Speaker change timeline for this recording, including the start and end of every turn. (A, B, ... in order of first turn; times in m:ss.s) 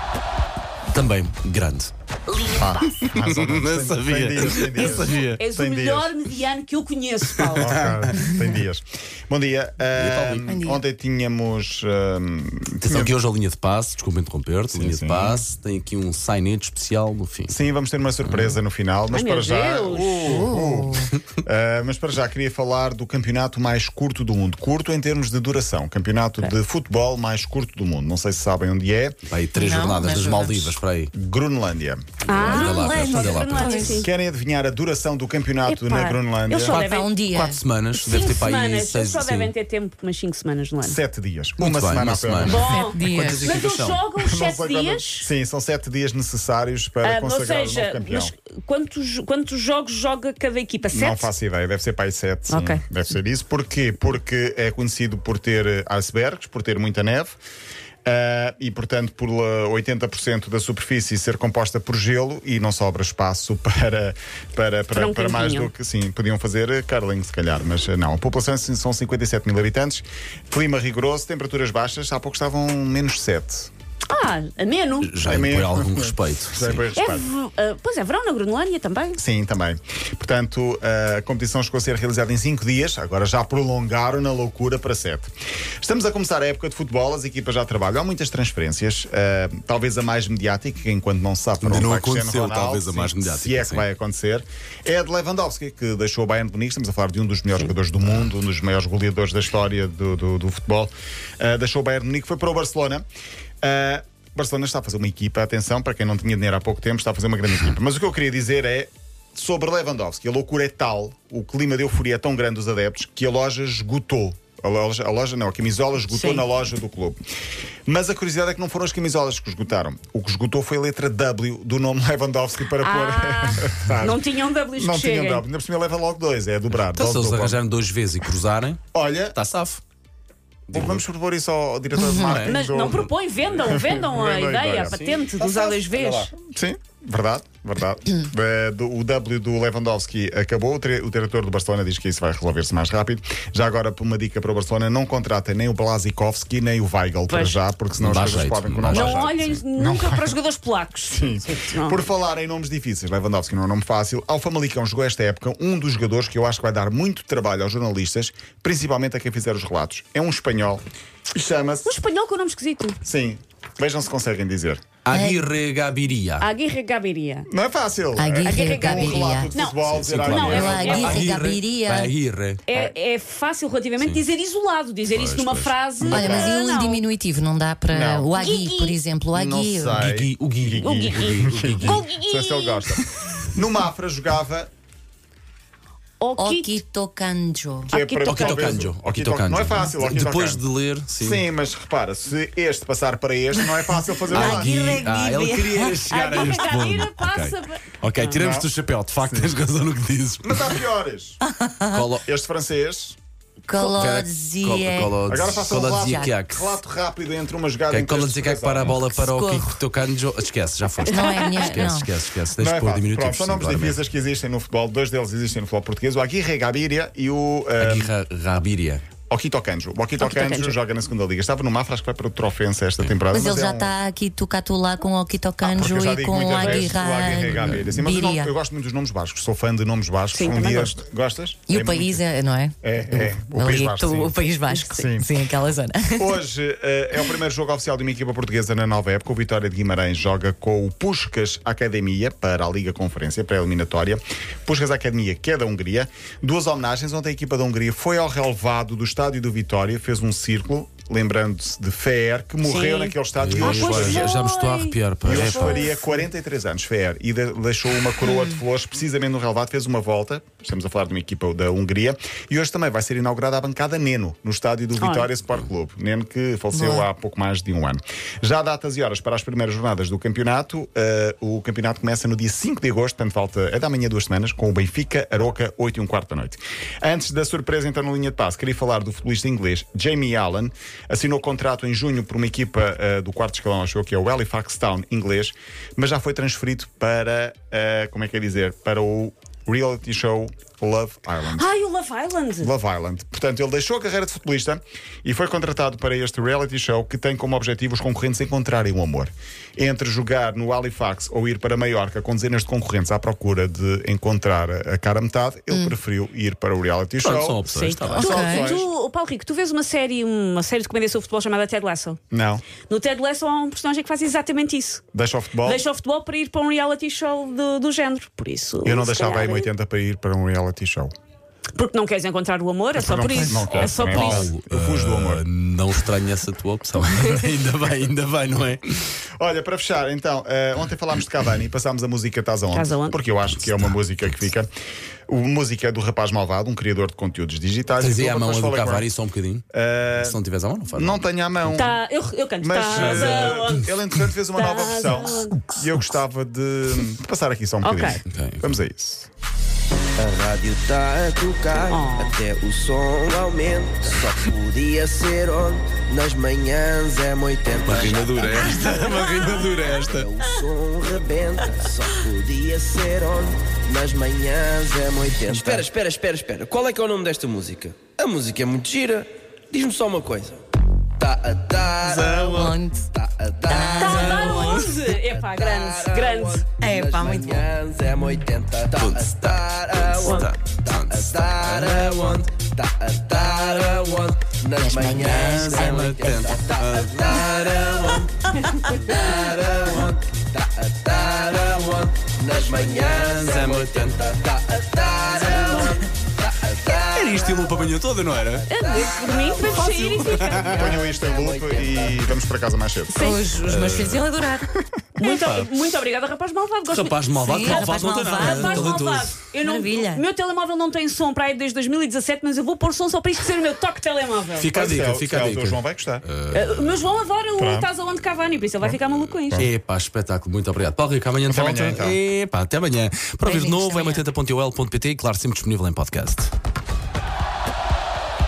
0:00.9-0:01.9 A
0:02.4-0:06.1 B
0:02.9-0:05.4 A
0:04.7-0:07.8 C
0:07.5-0:08.1 A
0:07.6-0:13.2 B
0:09.9-0:10.5 A
0:10.5-0:10.8 D
0:12.8-0:17.6 A
0:14.7-0:15.4 B
0:17.5-0:29.2 B
0:18.2-0:18.6 A
0:19.1-0:20.4 C
0:20.2-0:21.1 D
0:29.3-0:31.1 A
0:29.6-0:30.8 D
0:31.1-0:32.8 B
0:32.3-0:34.0 A
0:32.3-0:34.1 C
0:32.6-0:34.1 D
0:34.0-0:36.8 B
0:35.7-0:37.1 C
0:36.7-0:37.6 D
0:36.7-0:39.5 A
0:37.9-0:41.0 C
0:40.8-0:42.7 B
0:41.6-0:44.0 A
0:42.4-0:45.3 C
0:42.7-0:43.5 D
0:44.2-0:48.3 B
0:47.0-0:51.3 C
0:50.9-0:57.4 B
0:52.5-0:52.8 C
0:58.0-1:13.7 B
1:04.9-1:05.7 C
1:14.1-1:15.1 C
1:15.0-1:16.8 A
1:15.2-1:17.3 B
1:17.0-1:19.2 C
1:19.2-1:43.0 B
1:31.6-1:33.9 A
1:43.6-1:57.2 B
1:56.1-1:56.4 C
1:57.9-2:04.2 B
2:02.8-2:05.5 C
2:04.8-2:07.6 B
2:06.8-2:08.8 A
2:08.9-2:09.4 B
2:09.3-2:09.8 A
2:10.7-2:11.0 A
2:10.7-2:30.4 B
2:12.0-2:12.4 D
2:12.1-2:12.6 A
2:12.4-2:16.3 C
2:14.9-2:15.3 A
2:27.3-2:27.6 C
2:27.9-2:29.3 A
2:28.9-2:32.0 C
2:31.1-2:41.9 B
2:41.8-2:43.0 C
2:43.0-2:44.8 B
2:45.0-2:46.5 A
2:45.1-2:45.4 D
2:46.4-2:47.5 C
2:47.5-2:51.2 B
2:48.2-2:49.5 D
2:48.4-2:51.3 C
2:49.9-2:52.7 A
2:50.4-2:52.1 D
2:52.7-2:57.0 C
2:55.1-2:55.7 A
2:56.0-2:56.6 B
2:56.0-3:00.1 D
2:57.9-2:58.3 B
2:58.4-2:59.0 C
2:59.3-3:04.7 B
2:59.9-3:02.0 A
3:00.8-3:03.0 C
3:06.2-3:06.8 C
3:06.4-3:07.9 D
3:07.9-3:08.8 C
3:07.9-3:10.6 B
3:08.2-3:11.4 A
3:11.2-3:15.1 B
3:14.3-3:16.1 D
3:14.3-3:20.8 A
3:16.1-3:18.4 C
3:18.3-3:18.7 B
3:19.2-3:19.5 B
3:20.4-3:21.4 B
3:21.5-3:21.9 D
3:21.9-3:22.2 A
3:22.2-3:23.2 B
3:23.7-3:26.4 D
3:23.8-3:26.7 A
3:25.2-3:29.0 B
3:27.9-3:34.0 A
3:29.1-3:29.8 D
3:31.1-3:31.7 C
3:31.1-3:32.1 D
3:32.6-3:38.1 B
3:37.8-3:39.0 A
3:39.3-3:43.9 B
3:40.2-3:40.8 C
3:43.3-3:48.5 D
3:45.6-3:52.2 B
3:46.5-3:46.9 C
3:50.3-3:51.0 C
3:51.7-3:56.3 D
3:52.8-3:54.4 B
3:54.9-3:55.3 B
3:56.2-4:14.3 B
4:12.6-4:16.1 C
4:13.4-4:15.8 A
4:15.2-4:51.7 B
4:18.3-4:18.6 D
4:25.0-4:25.3 C
4:26.7-4:27.1 D
4:51.5-4:52.7 C
4:52.6-5:08.9 B
5:05.7-5:06.0 D
5:07.2-5:08.4 A
5:07.7-5:12.2 C
5:08.2-5:08.7 D
5:12.3-5:12.6 B
5:12.9-5:15.0 C
5:15.1-5:15.8 B
5:15.6-5:19.7 C
5:18.8-5:21.1 B
5:21.8-5:24.5 C
5:23.0-5:25.4 B
5:23.4-5:28.8 A
5:29.4-5:34.7 B
5:32.7-5:33.2 C
5:33.5-5:34.0 A
5:35.3-5:39.1 B
5:38.0-5:41.3 A
5:39.7-5:40.4 B
5:40.9-5:42.0 B
5:41.7-5:43.9 C
5:42.6-5:49.3 B
5:42.9-5:43.7 A
5:44.6-5:45.6 C
5:47.8-5:48.2 C
5:48.3-5:48.8 A
5:50.2-5:58.8 E
5:51.9-5:52.4 C
5:57.8-6:00.3 A
5:58.6-5:59.9 C
6:00.0-6:10.6 E
6:05.5-6:05.9 A
6:11.2-6:37.7 E
6:12.0-6:12.7 A
6:12.2-6:13.1 D
6:13.7-6:15.0 D
6:13.9-6:16.7 C
6:16.8-6:17.7 D
6:19.0-6:22.5 A
6:20.2-6:20.5 C
6:24.8-6:26.7 D
6:25.3-6:28.2 A
6:29.1-6:30.1 A
6:32.6-6:34.3 A
6:36.9-6:38.7 A
6:38.7-6:41.0 C
6:38.8-6:39.9 E
6:39.6-6:40.8 A
6:40.5-6:42.2 E
6:40.6-6:43.2 B
6:43.1-6:44.7 D
6:43.2-6:43.4 C
6:43.6-6:44.3 A
6:45.2-6:54.7 C
6:45.2-6:45.7 A
6:46.9-6:49.4 A
6:47.3-6:50.2 D
6:54.6-6:57.0 A
6:54.7-6:56.2 B
6:56.5-6:59.7 C
6:57.6-6:57.9 B
6:58.8-6:59.7 B
6:59.6-7:06.5 A
7:01.5-7:02.2 B
7:03.4-7:04.2 D